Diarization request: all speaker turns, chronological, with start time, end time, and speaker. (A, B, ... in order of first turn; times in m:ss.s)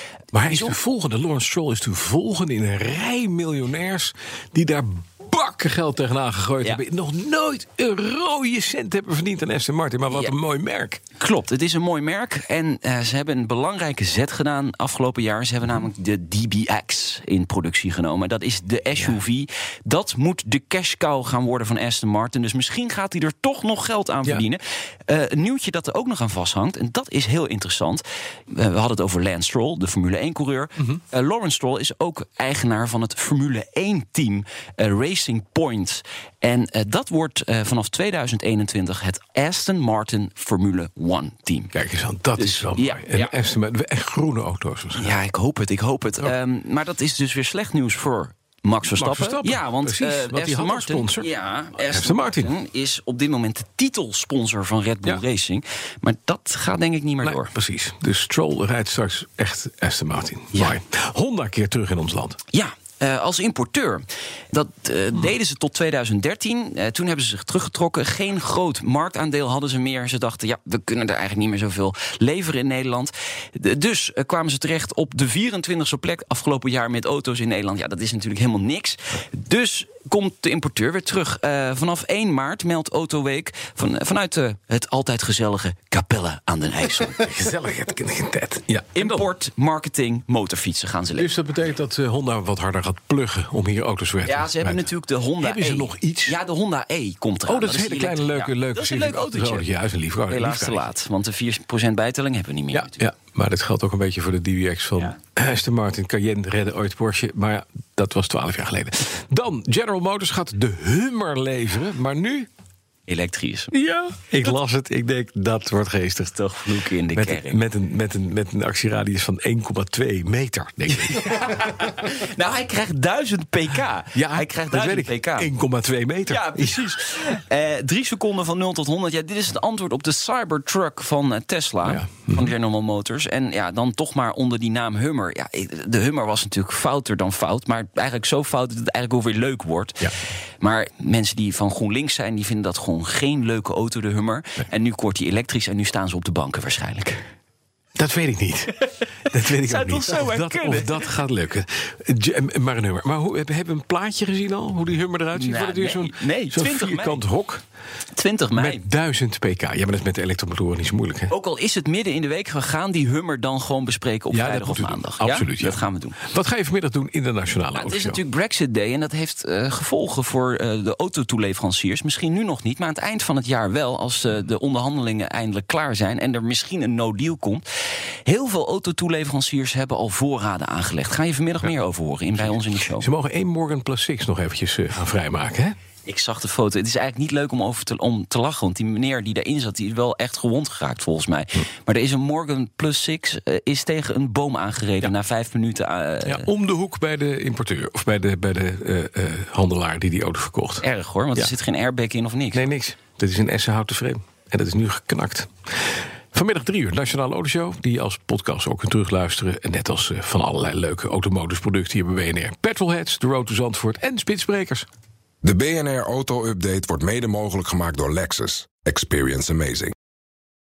0:00.3-0:11.0 A
0:00.5-0:00.8 B
0:11.2-0:41.7 B
0:41.7-0:45.2 A
0:42.4-0:43.4 B
0:45.0-0:57.5 B
0:48.9-0:52.5 A
0:57.2-1:02.4 A
1:02.5-1:27.2 B
1:27.1-1:29.2 A
1:28.9-1:31.3 B
1:31.2-1:34.9 A
1:34.3-1:39.6 B
1:35.4-1:36.4 A
1:37.5-1:40.9 A
1:40.3-1:43.0 B
1:42.7-1:52.5 A
1:53.1-1:53.7 B
1:53.7-1:56.4 A
1:56.4-1:57.6 B
1:57.1-2:01.5 A
2:01.1-2:05.5 B
2:04.1-2:07.0 A
2:06.3-2:27.2 B
2:11.8-2:12.5 A
2:28.0-2:37.6 A
2:28.8-2:31.1 B
2:35.4-2:37.2 B
2:38.2-2:38.8 B
2:38.6-2:41.3 A
2:41.3-2:46.2 B
2:44.3-2:48.2 A
2:47.7-2:57.6 B
2:58.2-3:03.1 B
3:02.4-3:05.8 A
3:06.0-3:16.5 B
3:16.2-3:20.8 A
3:20.8-3:22.7 B
3:22.5-3:34.8 A
3:35.4-3:39.9 C